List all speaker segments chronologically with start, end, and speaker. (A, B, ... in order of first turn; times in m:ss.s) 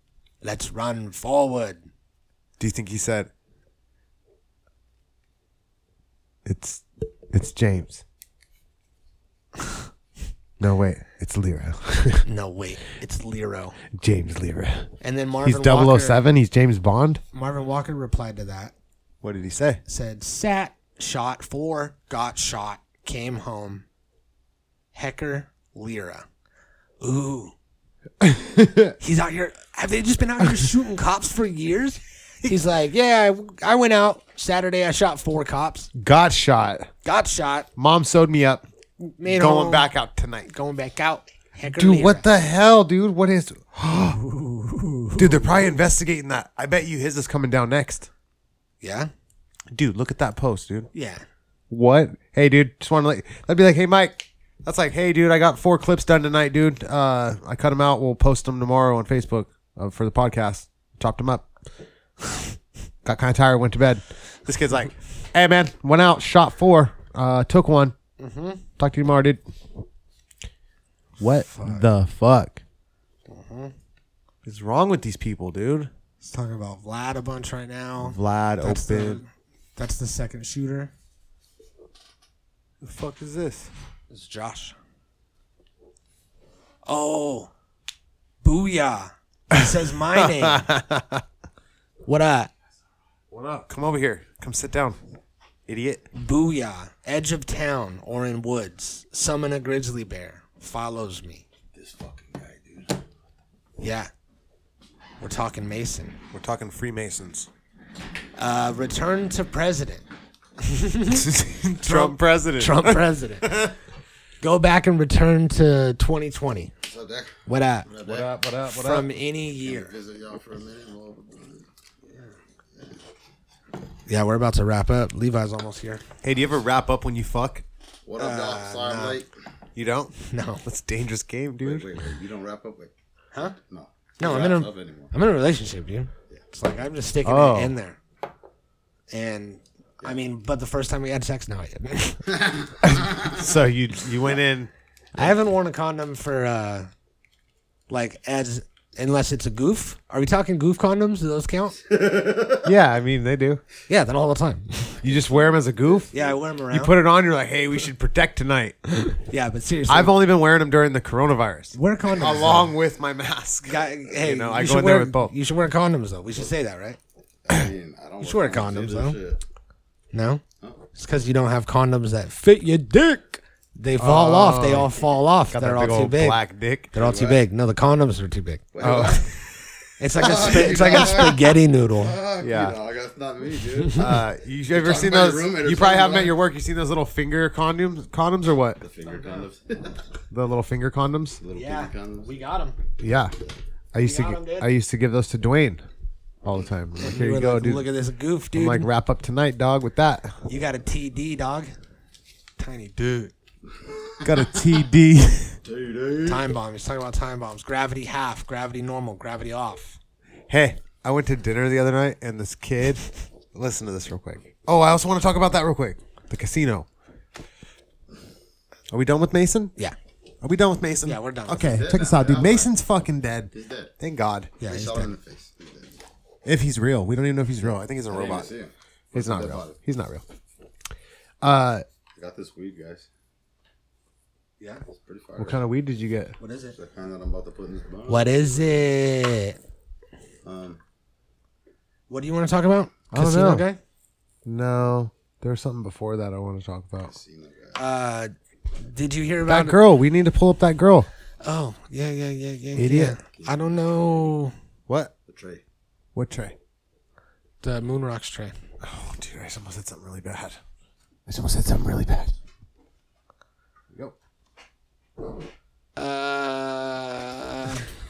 0:00.4-0:01.9 A
0:02.6-0:03.3 B
0:06.4-0:08.0 B
0:10.6-0:12.2 B
0:12.2-0:13.8 A
0:13.9-0:14.9 B
0:15.0-0:16.2 A
0:15.4-0:17.2 B
0:17.3-0:18.7 A
0:19.2-0:19.8 B
0:19.8-0:23.8 A
0:24.9-0:26.2 A
0:27.0-0:27.5 A
0:28.2-0:28.9 B
0:29.0-0:35.9 A
0:35.9-0:36.9 B
0:37.0-0:37.7 A
0:37.8-0:38.6 B
0:39.0-0:39.9 A
0:39.2-0:40.5 B
0:40.5-0:42.3 A
0:41.7-0:44.2 B
0:44.2-0:45.5 A
0:45.2-0:48.1 B
0:48.8-0:49.1 A
0:49.7-0:50.9 B
0:50.9-0:51.2 A
0:51.7-1:01.5 B
1:03.0-1:07.9 B
1:08.2-1:08.6 A
1:08.8-1:09.4 B
1:11.2-1:12.6 B
1:11.4-1:11.9 A
1:13.3-1:13.7 A
1:14.4-1:15.9 B
1:16.2-1:20.9 A
1:18.0-1:19.2 B
1:22.8-1:23.7 B
1:24.1-1:24.8 A
1:26.8-1:27.5 A
1:28.4-1:30.7 A
1:30.2-1:31.2 B
1:32.0-1:32.5 A
1:33.3-1:35.0 B
1:35.7-1:36.0 B
1:36.1-1:41.4 A
1:41.7-1:43.0 C
1:43.8-1:44.1 A
1:45.2-1:46.2 A
1:46.3-1:47.5 B
1:48.4-1:50.0 A
1:50.6-1:51.3 A
1:51.1-1:53.7 B
1:51.8-1:53.7 A
1:54.4-1:56.7 A
1:56.8-1:58.3 C
1:57.4-1:57.9 A
1:58.0-1:59.1 B
1:58.7-1:59.9 A
1:59.6-2:01.7 C
2:02.7-2:03.0 C
2:04.1-2:06.0 A
2:06.2-2:07.6 B
2:08.0-2:09.3 C
2:08.2-2:09.2 A
2:09.8-2:11.9 B
2:10.3-2:10.6 A
2:11.6-2:12.9 C
2:13.5-2:15.1 C
2:14.2-2:18.0 A
2:17.2-2:17.7 B
2:19.1-2:22.3 A
2:22.4-2:23.2 C
2:22.8-2:24.7 B
2:25.1-2:26.9 A
2:27.9-2:31.8 A
2:31.9-2:32.7 C
2:32.6-2:33.6 B
2:33.9-2:35.0 A
2:35.0-2:36.1 B
2:35.2-2:36.4 C
2:36.1-2:36.9 A
2:36.7-2:38.8 B
2:39.0-2:40.1 A
2:39.9-2:45.3 B
2:41.7-2:42.7 A
2:43.6-2:47.0 A
2:47.4-2:49.4 C
2:48.2-2:49.2 A
2:50.1-2:50.4 A
2:50.9-2:56.4 A
2:54.0-2:54.9 B
2:55.5-2:56.9 B
2:56.9-2:57.4 C
2:56.9-2:58.6 A
2:58.7-2:59.4 C
2:58.8-2:59.6 B
3:00.0-3:02.1 A
3:00.2-3:04.2 C
3:00.5-3:01.2 B
3:02.4-3:02.8 B
3:03.9-3:08.8 B
3:04.7-3:06.3 C
3:08.8-3:10.1 C
3:09.0-3:09.4 A
3:10.3-3:11.4 B
3:11.4-3:12.4 C
3:11.5-3:12.8 A
3:13.0-3:13.3 B
3:13.9-3:15.8 B
3:14.0-3:14.7 A
3:16.4-3:17.8 B
3:17.0-3:18.9 A
3:18.5-3:20.4 B
3:20.4-3:21.7 A
3:22.6-3:23.3 A
3:23.7-3:24.6 C
3:24.2-3:25.6 B
3:25.6-3:26.5 C
3:26.2-3:30.0 A
3:30.5-3:36.9 B
3:38.9-3:39.7 B
3:40.4-3:44.6 B
3:41.0-3:41.8 A
3:41.5-3:42.7 C
3:43.5-3:43.9 C
3:44.6-3:46.0 C
3:44.6-3:45.1 A
3:46.4-3:48.5 B
3:47.6-3:49.8 C
3:49.1-3:50.2 B
3:51.4-3:51.8 B
3:52.2-3:53.1 C
3:54.6-3:54.8 A
3:54.9-3:55.6 C
3:55.4-3:56.4 B
3:56.4-3:56.8 A
3:56.7-3:58.8 C
3:58.1-3:59.6 A
4:00.4-4:00.8 C
4:02.1-4:03.8 A
4:03.1-4:03.6 B
4:04.4-4:07.1 B
4:07.0-4:07.8 C
4:07.7-4:09.8 A
4:09.5-4:11.1 B
4:11.4-4:14.5 A
4:12.8-4:13.2 B
4:13.3-4:14.3 C
4:15.3-4:15.6 C
4:16.1-4:16.6 B
4:17.6-4:18.6 A
4:18.8-4:20.6 B
4:21.3-4:22.3 B
4:26.0-4:27.9 A